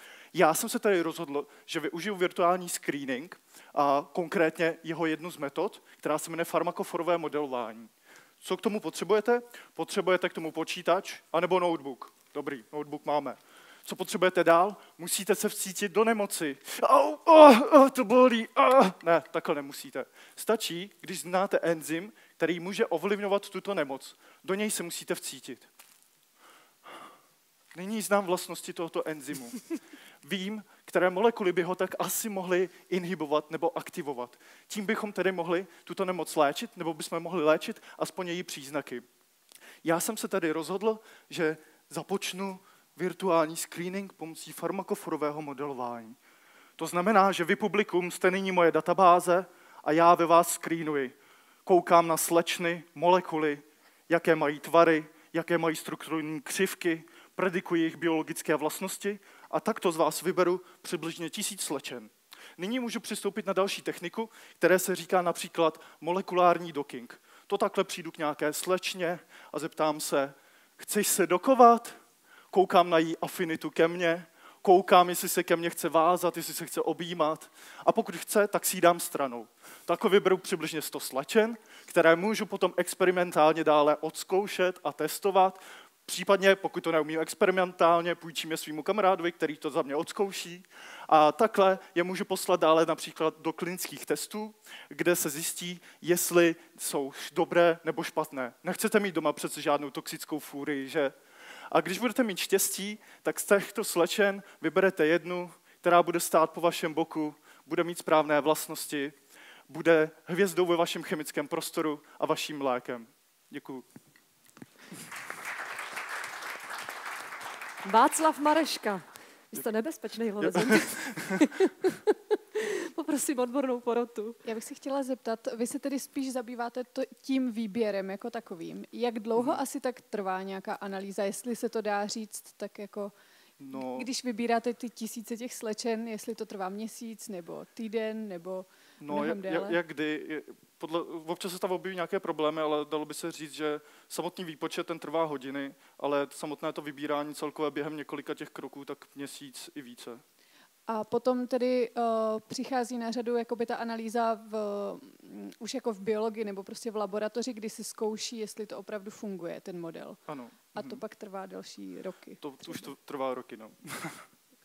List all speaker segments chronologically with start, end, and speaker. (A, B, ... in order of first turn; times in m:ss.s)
0:00.3-0:25.7 A
0:27.7-0:29.6 A
0:30.2-0:39.0 A
0:39.8-0:46.2 A
0:46.8-0:51.1 A
0:51.6-1:12.0 A
1:12.5-1:41.1 A
1:41.7-1:49.1 A
1:49.7-1:53.8 A
1:57.8-2:04.4 B
2:04.4-2:13.1 C
2:13.6-2:14.1 A
2:13.7-2:19.8 C
2:19.0-2:30.2 A
2:30.9-2:40.2 C
2:40.3-2:41.0 A
2:40.7-2:42.8 C
2:42.4-2:44.2 A